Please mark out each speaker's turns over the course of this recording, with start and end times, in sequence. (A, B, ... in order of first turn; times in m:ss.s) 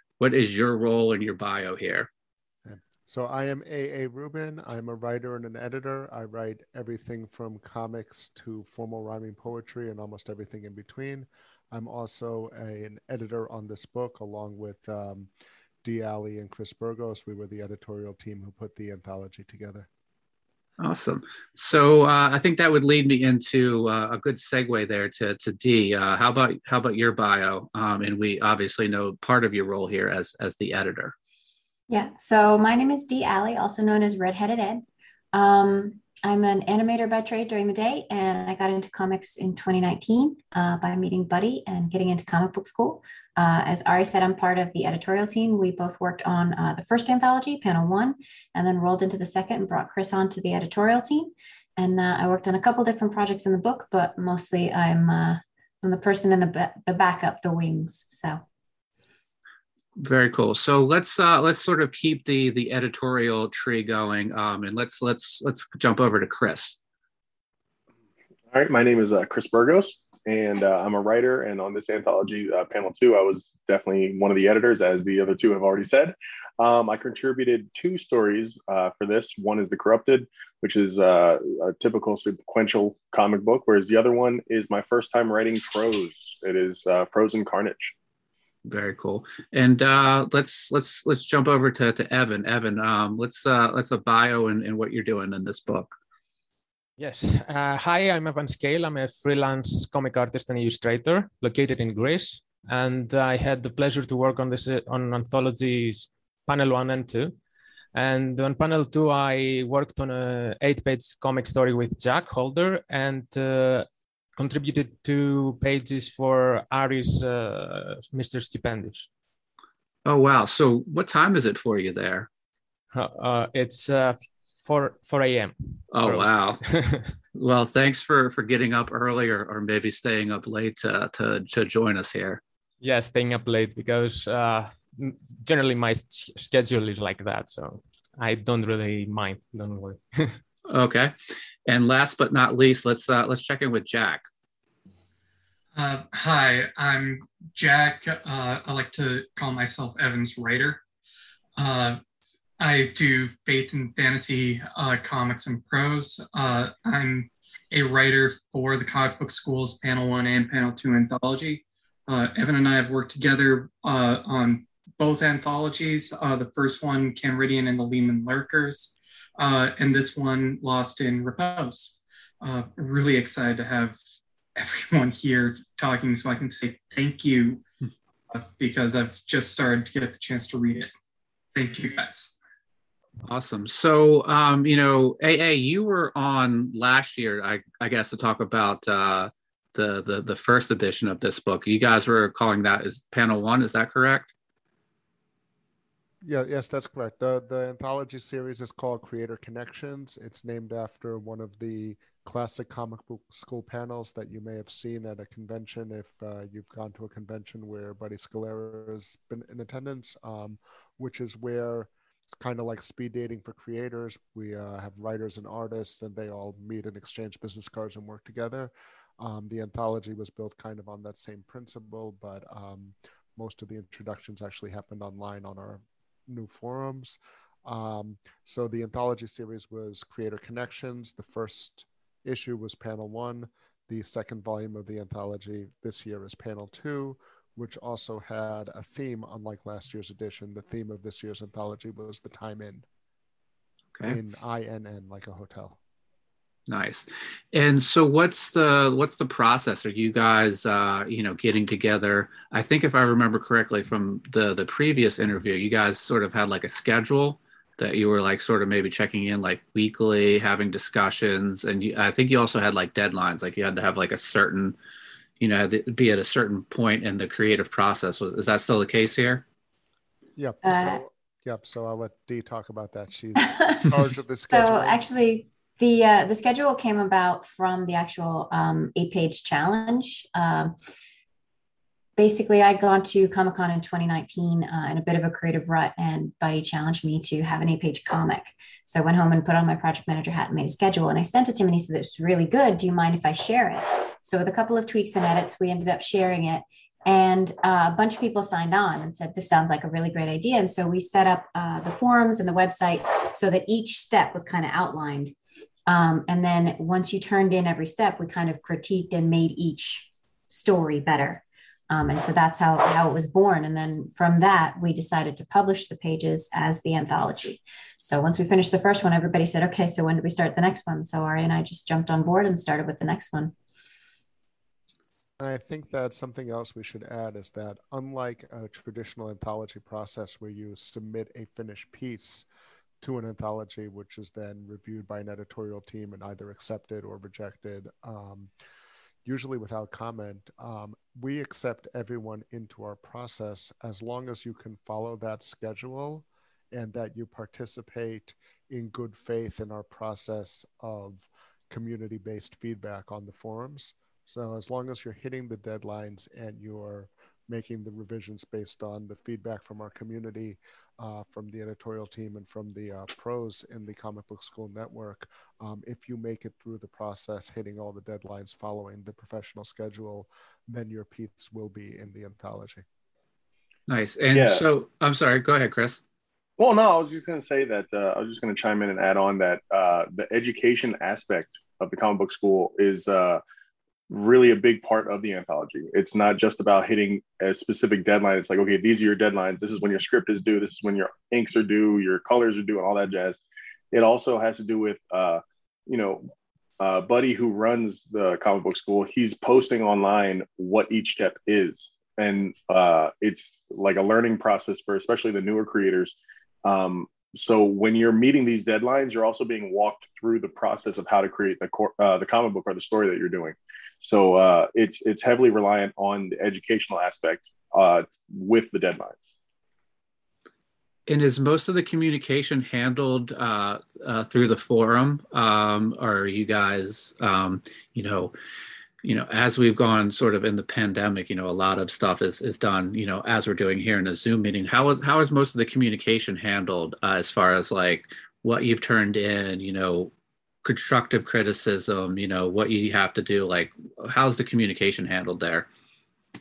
0:00.2-0:02.1 A
0:02.6-0:15.3 B
0:15.8-0:19.9 B
0:20.8-0:31.1 A
0:31.9-0:58.4 C
1:00.0-1:06.8 A
1:08.5-1:27.9 D
1:28.6-1:36.0 A
1:37.0-1:47.4 E
1:47.9-1:53.9 E
1:54.4-1:59.1 E
2:00.0-2:02.3 A
2:02.9-2:07.2 E
2:05.9-2:06.6 A
2:07.3-2:12.4 A
2:12.8-2:20.4 E
2:20.7-2:21.1 A
2:21.7-2:24.3 A
2:25.7-2:30.8 F
2:31.6-2:54.0 F
2:54.6-2:57.6 F
2:58.3-3:00.9 F
3:01.5-3:02.3 F
3:03.2-3:14.3 A
3:16.2-4:02.8 B
4:04.0-4:05.8 B
4:06.7-4:24.8 A
4:25.4-4:29.4 A
4:30.4-4:35.0 B
4:30.6-4:31.0 C
4:33.4-4:40.8 C
4:42.2-5:05.3 C
5:05.9-5:23.5 C
5:25.4-5:32.5 B
5:33.0-5:38.5 B
5:39.2-6:12.8 B
6:13.9-6:16.0 A
6:14.3-6:14.6 D
6:16.6-6:23.4 D
6:24.1-6:33.4 D
6:33.9-6:59.3 D
7:01.1-7:08.3 A
7:09.0-7:20.1 A
7:20.6-7:25.7 A